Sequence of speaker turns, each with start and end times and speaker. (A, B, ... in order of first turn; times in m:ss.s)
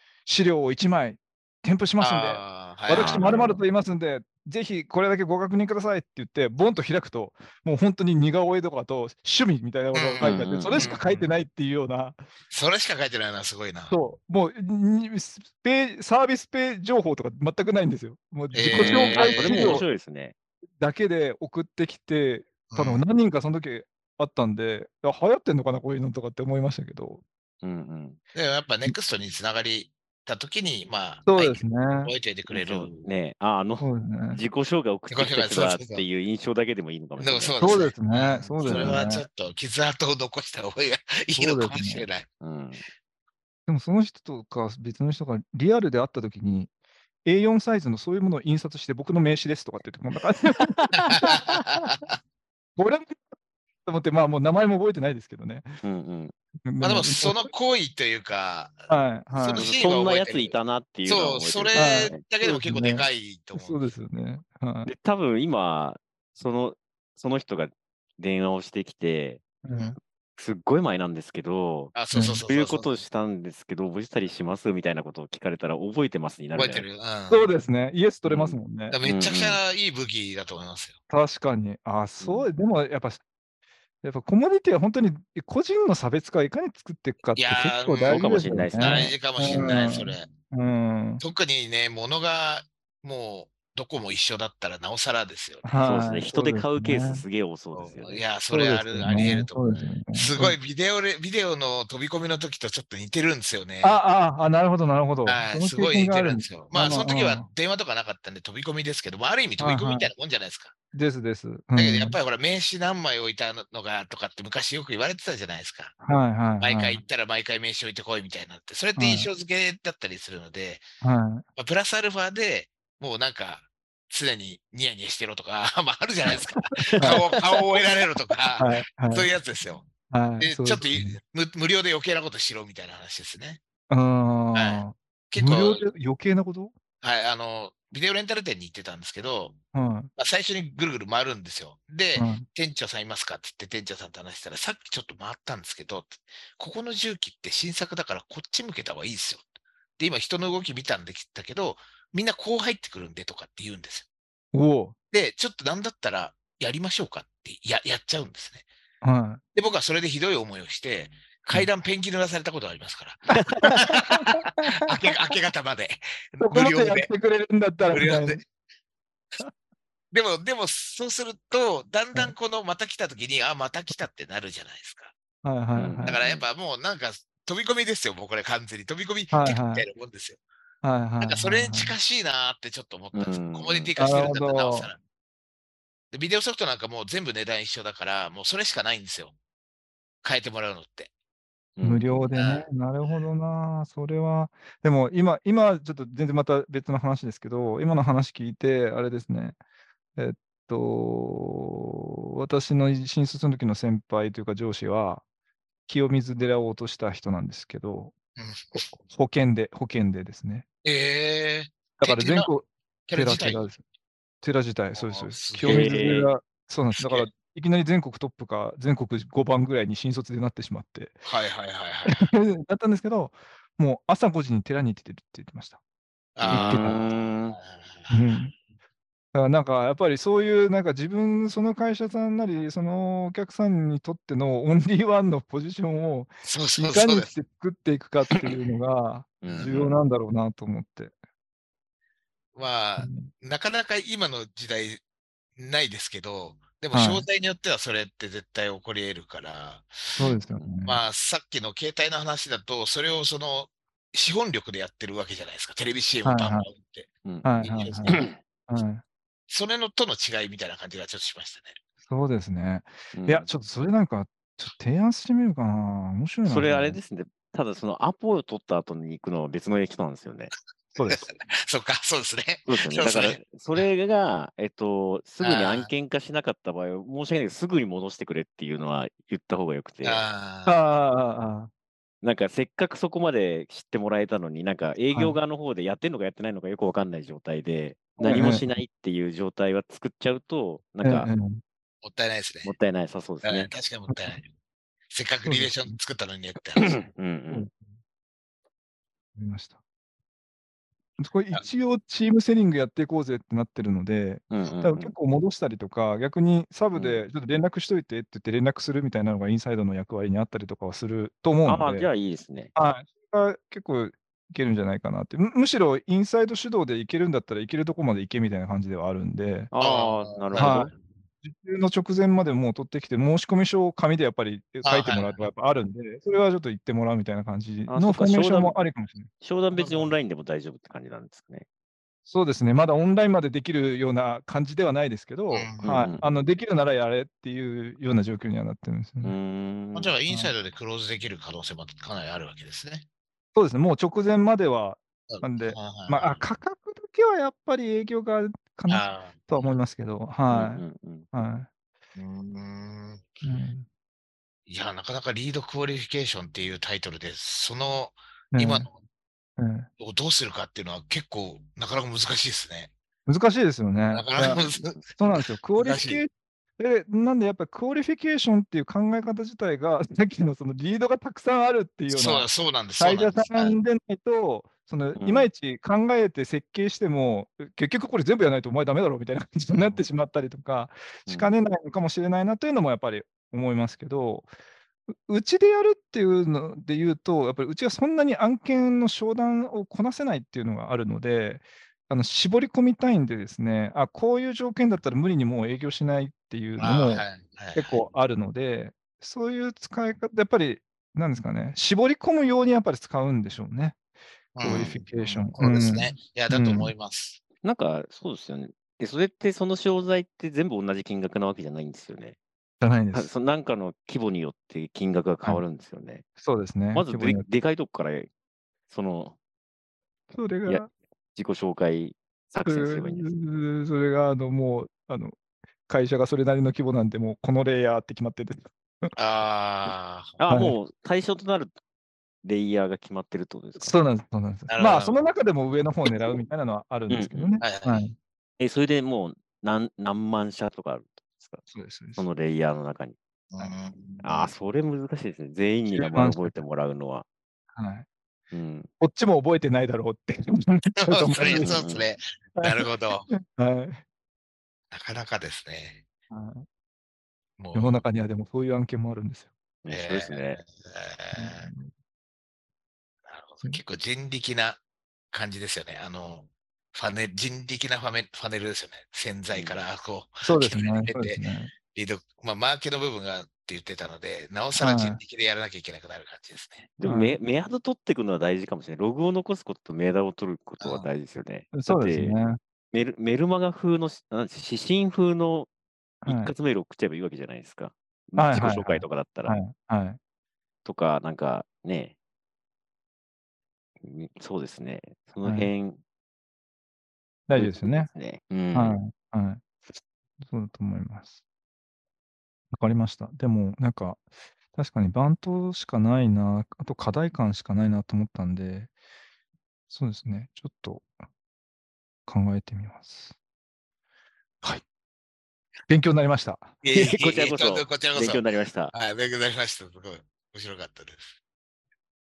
0:00.3-0:12.2 A
0:02.0-0:03.4 B
0:02.9-0:03.6 C
0:09.9-0:11.3 B
0:10.2-0:10.9 C
0:12.5-0:14.0 B
0:13.9-0:19.8 A
0:18.5-0:19.8 B
0:18.6-0:20.3 C
0:20.8-0:27.2 A
0:22.7-0:23.0 B
0:27.6-0:28.2 C
0:28.3-0:33.1 B
0:31.3-0:32.1 A
0:32.5-0:37.9 C
0:33.8-0:34.4 A
0:35.1-0:36.0 B
0:37.2-0:42.3 B
0:37.6-0:39.3 A
0:38.6-0:39.0 C
0:41.4-0:42.1 A
0:42.4-0:42.8 C
0:43.7-0:46.7 A
0:47.2-0:51.4 A
0:50.5-0:51.3 C
0:51.1-0:52.1 B
0:52.8-0:53.2 A
0:53.8-0:55.8 A
0:55.8-0:56.3 C
0:56.6-0:57.5 A
0:56.8-1:03.8 B
0:58.9-0:59.7 A
0:59.5-1:02.2 C
1:01.8-1:04.9 A
1:04.9-1:09.4 C
1:09.6-1:10.0 A
1:10.4-1:12.0 C
1:12.0-1:12.9 B
1:12.1-1:12.4 A
1:12.5-1:16.9 C
1:16.5-1:17.5 B
1:17.3-1:19.0 A
1:18.3-1:19.6 C
1:18.9-1:21.0 B
1:21.1-1:23.2 A
1:22.2-1:22.5 C
1:24.0-1:31.2 A
1:27.4-1:30.3 B
1:28.1-1:29.7 C
1:31.2-1:35.8 B
1:35.6-1:37.2 A
1:35.8-1:38.2 C
1:37.8-1:44.0 B
1:38.5-1:40.6 A
1:43.8-1:47.5 A
1:45.3-1:50.8 B
1:49.6-1:50.1 A
1:50.9-1:52.2 A
1:51.8-1:56.0 B
1:56.0-1:57.0 A
1:56.6-2:00.8 B
1:59.0-1:59.3 A
2:01.0-2:01.4 A
2:01.6-2:09.9 B
2:06.9-2:07.2 A
2:06.9-2:07.2 C
2:08.6-2:09.3 A
2:10.1-2:11.2 A
2:10.4-2:13.6 B
2:13.9-2:16.7 A
2:14.6-2:15.8 B
2:17.0-2:19.6 B
2:19.7-2:20.1 A
2:20.2-2:29.4 B
2:22.2-2:22.4 A
2:30.0-2:34.1 B
2:34.5-2:35.0 A
2:35.1-2:38.6 B
2:39.0-2:39.4 A
2:39.6-2:47.1 B
2:43.3-2:44.8 A
2:46.4-2:48.4 A
2:47.9-2:48.4 B
2:50.1-2:55.2 B
2:55.4-2:56.2 A
2:55.8-2:56.4 C
2:56.1-3:00.4 B
2:59.3-2:59.9 A
3:00.8-3:02.0 A
3:01.2-3:05.0 B
3:03.1-3:03.9 C
3:04.0-3:04.9 A
3:06.1-3:09.4 B
3:10.2-3:11.1 B
3:11.8-3:12.3 C
3:11.8-3:19.6 A
3:12.3-3:13.3 B
3:20.2-3:25.2 A
3:25.9-3:28.2 A
3:28.4-3:28.8 B
3:29.0-3:30.6 A
3:30.8-3:32.5 B
3:32.0-3:33.8 A
3:33.1-3:33.7 B
3:34.4-3:41.3 A
3:35.0-3:36.2 B
3:35.6-3:36.3 C
3:37.0-3:37.3 B
3:41.3-3:42.3 B
3:42.1-3:45.8 A
3:46.4-3:48.3 B
3:46.4-3:47.1 A
3:46.5-3:47.6 C
3:48.1-3:48.5 A
3:49.3-4:01.1 A
3:56.4-3:57.3 B
3:59.4-3:59.9 C
3:59.4-3:59.8 B
4:02.6-4:05.0 B
4:03.0-4:03.3 A
4:05.6-4:10.1 B
4:06.9-4:07.3 A
4:10.2-4:11.0 A
4:10.2-4:10.7 C
4:10.8-4:17.1 B
4:16.2-4:16.7 A
4:17.2-4:18.4 C
4:17.4-4:19.0 A
4:17.6-4:18.3 B
4:19.5-4:21.8 B
4:22.1-4:27.0 A
4:23.1-4:23.5 C
4:26.4-4:30.5 C
4:31.0-4:31.3 A
4:31.0-4:33.8 B
4:32.7-4:40.2 C
4:35.4-4:35.9 B
4:40.0-4:40.8 B
4:40.6-4:41.7 A
4:42.2-4:51.3 C
4:45.1-4:45.4 A
4:48.2-4:48.6 A
4:51.0-4:51.6 A
4:52.0-4:52.7 B
4:52.6-4:53.7 C
4:53.4-4:54.5 B
4:54.1-4:54.4 A
4:55.1-4:57.0 B
4:55.5-4:56.0 A
4:56.8-4:57.7 C
4:57.5-4:57.8 A
4:59.4-4:59.8 A
5:01.2-5:12.1 A
5:04.5-5:05.1 C
5:06.9-5:07.2 C
5:11.6-5:12.7 C
5:12.8-5:19.7 A
5:19.7-5:20.9 C
5:19.8-5:20.9 B
5:20.6-5:30.1 A
5:24.8-5:25.5 B
5:27.9-5:28.8 C
5:29.4-5:31.7 C
5:32.3-5:39.4 A
5:35.5-5:36.0 B
5:35.8-5:36.2 C
5:39.2-5:40.2 C
5:40.0-5:43.1 B
5:43.6-5:51.7 A
5:45.3-5:46.4 B
5:48.9-5:49.7 B
5:50.5-5:51.3 C
5:52.2-5:53.4 B
5:53.4-5:53.9 A
5:54.7-5:59.0 B
5:58.5-5:58.9 A
5:59.6-5:59.9 A
6:00.0-6:02.9 B
6:03.3-6:04.6 A
6:04.1-6:06.2 B
6:05.2-6:24.5 A
6:12.1-6:13.8 B
6:15.2-6:15.5 C
6:19.8-6:20.0 B
6:25.3-6:44.0 A
6:36.8-6:38.0 B
6:44.6-6:47.4 B
6:44.6-6:46.9 A
6:44.6-6:45.0 C
6:47.6-6:52.4 C
6:52.8-6:53.3 A
6:53.1-6:56.3 C
6:56.4-6:57.5 A
6:56.9-6:58.3 C
6:58.9-6:59.4 C
7:00.3-7:00.9 A
7:00.7-7:03.3 C
7:02.7-7:05.4 A
7:05.9-7:09.1 A
7:09.2-7:10.4 B
7:10.4-7:11.8 C
7:10.5-7:10.8 A
7:12.4-7:14.0 C
7:13.8-7:18.2 A
7:14.7-7:15.2 B
7:17.1-7:17.6 C
7:17.6-7:18.0 B
7:18.6-7:21.6 C
7:21.7-7:22.2 A
7:22.2-7:23.2 C
7:23.5-7:24.5 B
7:24.2-7:27.3 C
7:25.9-7:26.6 A
7:27.8-7:28.1 A
7:28.5-7:28.9 C
7:29.0-7:31.8 A
7:31.0-7:33.3 B
7:31.4-7:32.0 C
7:32.6-7:34.0 A
7:34.9-7:36.0 B
7:36.3-7:36.7 A
7:37.6-7:38.0 B
7:37.7-7:39.5 A
7:39.8-7:40.6 C
7:39.9-7:41.7 B
7:41.4-7:41.9 A
7:43.3-7:44.8 B
7:45.3-7:56.9 B
7:49.5-7:49.8 C
7:50.4-7:51.7 A
7:54.8-7:55.2 A
7:57.0-8:02.4 C
7:57.0-7:57.4 A
8:00.8-8:01.1 B
8:01.7-8:02.6 A
8:02.9-8:05.7 C
8:06.2-8:06.5 A
8:06.2-8:09.6 C
8:08.4-8:10.2 A
8:10.8-8:12.1 C
8:14.0-8:16.0 C
8:15.4-8:15.7 A
8:17.5-8:18.1 A
8:17.5-8:19.0 C
8:18.7-8:19.6 A
8:20.4-8:21.4 A
8:22.7-8:28.9 A
8:29.9-8:31.1 A
8:32.3-8:33.4 A
8:35.9-8:36.8 A
8:36.8-8:41.4 B
8:36.9-8:38.9 C